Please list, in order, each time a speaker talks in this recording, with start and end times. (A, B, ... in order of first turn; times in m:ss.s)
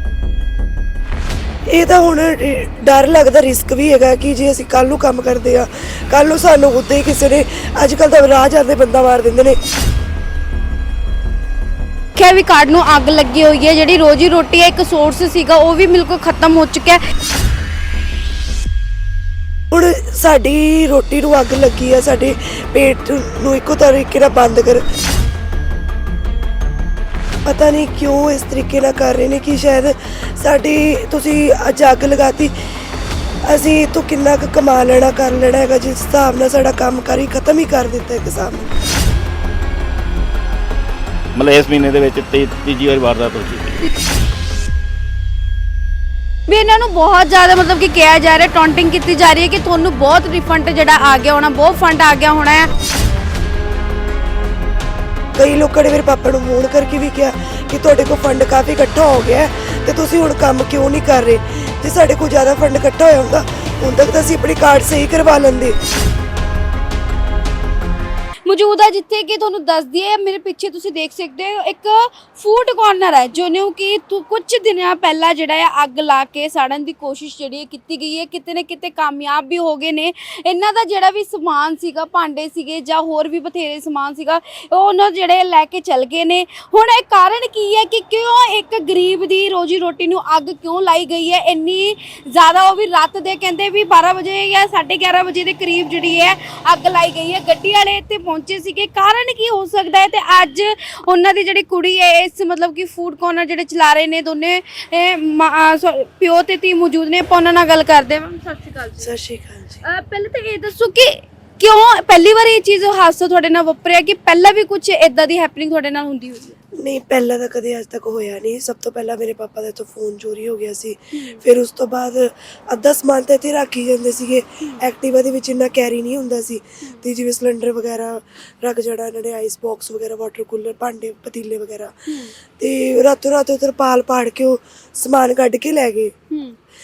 0:01.7-0:09.6 A
0:12.2-0:17.0 B
0:19.7-0:24.8 A
0:27.5-0:32.5 A
0:33.4-0:38.7 A
0:41.4-0:43.8 C
0:46.5-0:52.7 B
0:55.4-1:05.8 A
1:08.4-1:49.2 B
1:49.0-1:49.8 A
1:49.8-1:56.6 B
1:56.8-2:16.1 A
2:01.1-2:01.4 B
2:12.1-2:12.4 B
2:16.3-2:16.6 B